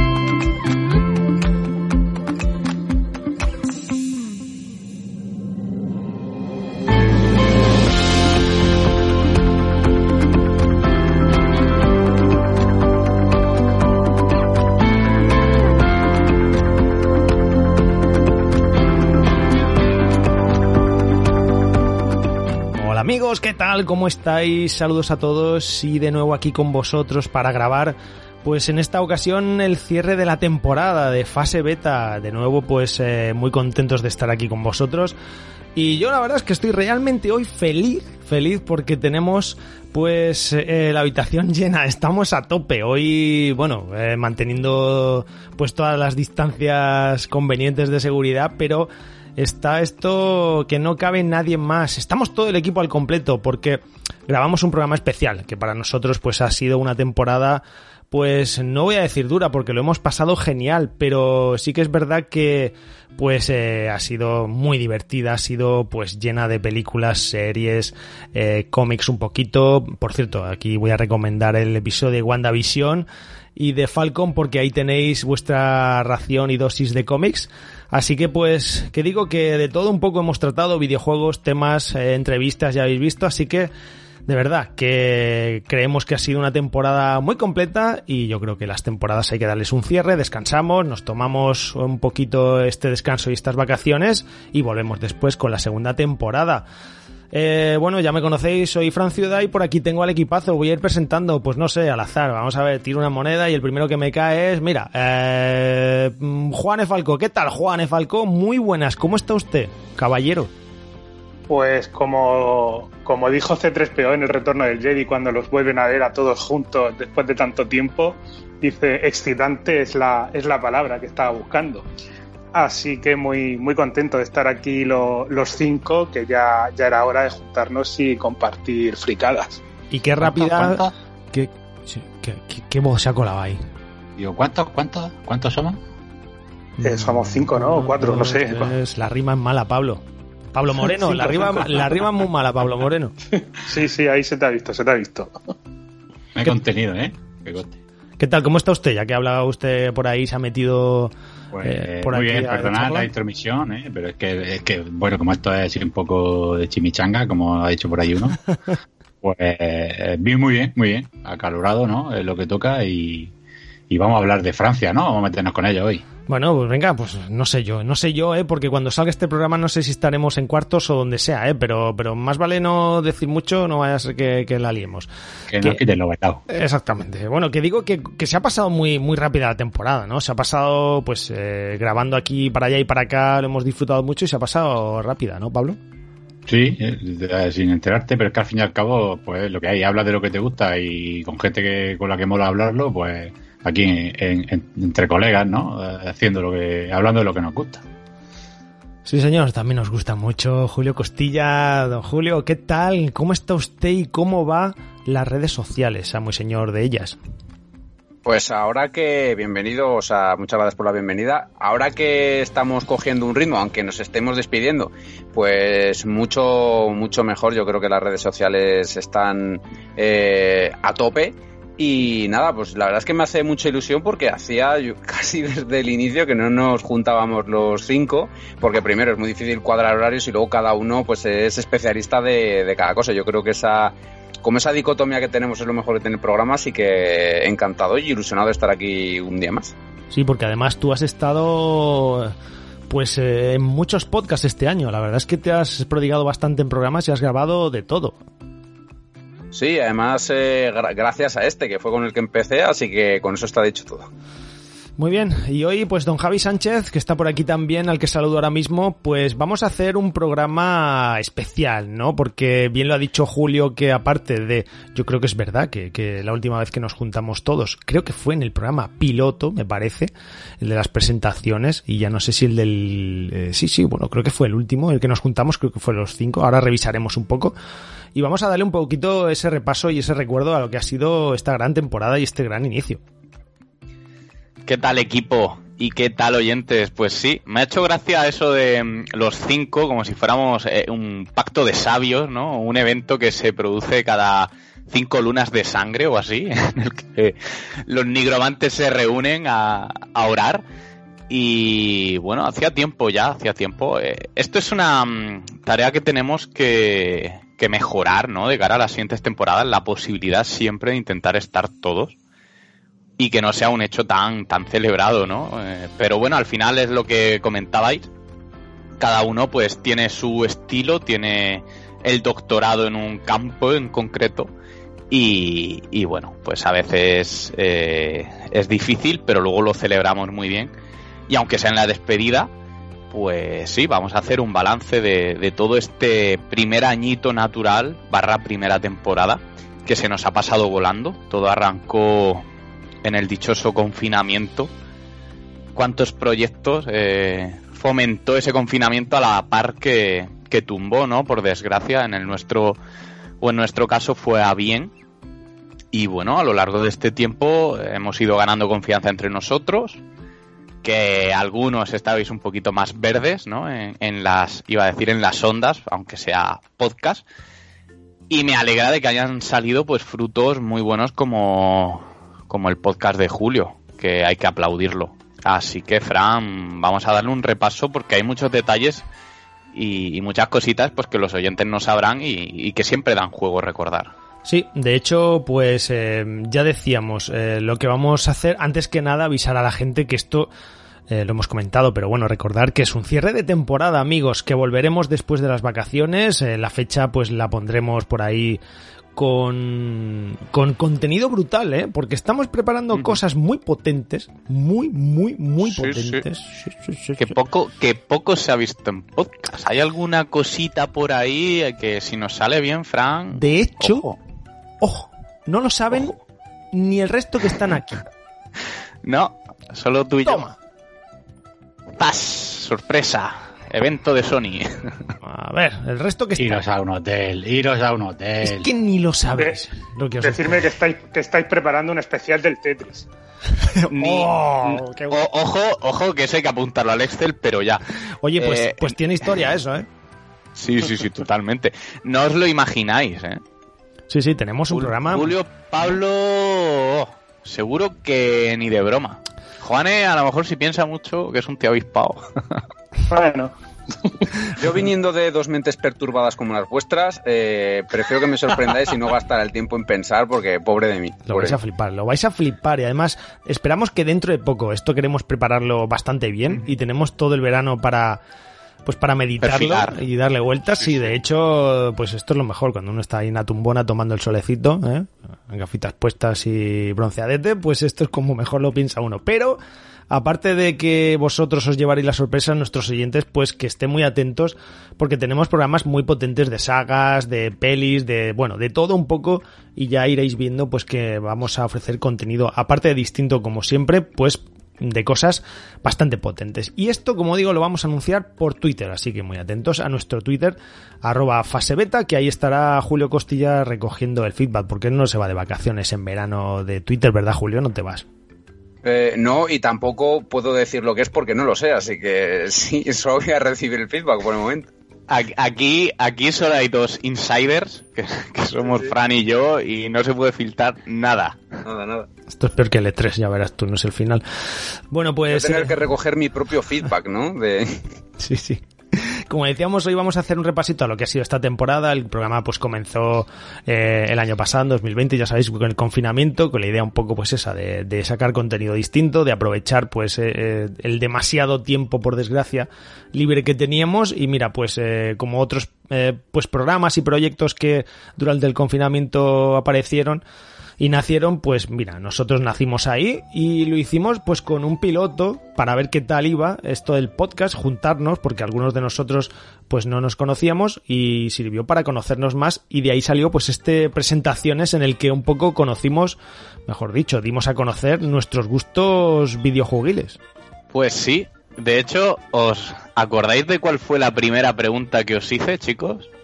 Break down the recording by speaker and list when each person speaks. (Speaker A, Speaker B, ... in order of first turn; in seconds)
Speaker A: 22.8-35.1, 35.8-83.7, 84.3-96.7, 97.3-110.5, 129.9-133.6, 136.8-140.0, 140.5-143.2, 148.2-153.1, 166.3-175.1, 176.5-185.8, 199.1-207.2, 240.1-242.3, 242.9-248.2, 255.0-277.5, 278.1-283.0, 384.4-390.5, 391.1-398.6, 399.1-407.2, 413.3-414.1, 414.8-416.1, 416.7-418.1, 420.3-420.5, 425.2-426.6, 428.4-430.6, 433.6-435.2, 438.2-439.9, 444.1-445.3, 461.3-468.2, 468.9-479.6, 480.1-508.1, 522.3-524.2, 524.9-525.8, 528.2-550.2, 550.8-570.2
Speaker B: 111.5-121.9, 122.5-129.6, 136.8-138.7, 143.6-145.5, 430.2-433.1, 453.1-454.3
Speaker C: 130.2-130.9, 134.2-135.8, 146.3-147.8, 151.5-158.4, 159.2-163.3, 163.9-166.1, 175.5-176.4, 186.5-197.8, 426.4-428.7
Speaker D: 208.2-239.8, 249.5-254.1, 454.6-461.6, 508.8-514.7, 518.6-518.9, 521.6-522.1, 525.3-528.0
Speaker E: 284.7-300.6, 301.3-312.1, 313.2-318.1, 319.0-324.5, 325.1-330.7, 331.3-332.5, 333.1-342.5, 343.0-344.7, 345.8-352.8, 353.4-354.9, 355.9-360.0, 360.8-367.2, 368.3-379.0, 379.7-384.1, 405.6-406.2, 407.2-414.2, 419.0-420.5, 422.0-425.1, 433.9-437.8, 438.4-438.9, 440.6-443.4, 444.7-452.6, 469.4-470.0, 470.8-471.1, 515.1-521.4, 570.7-576.1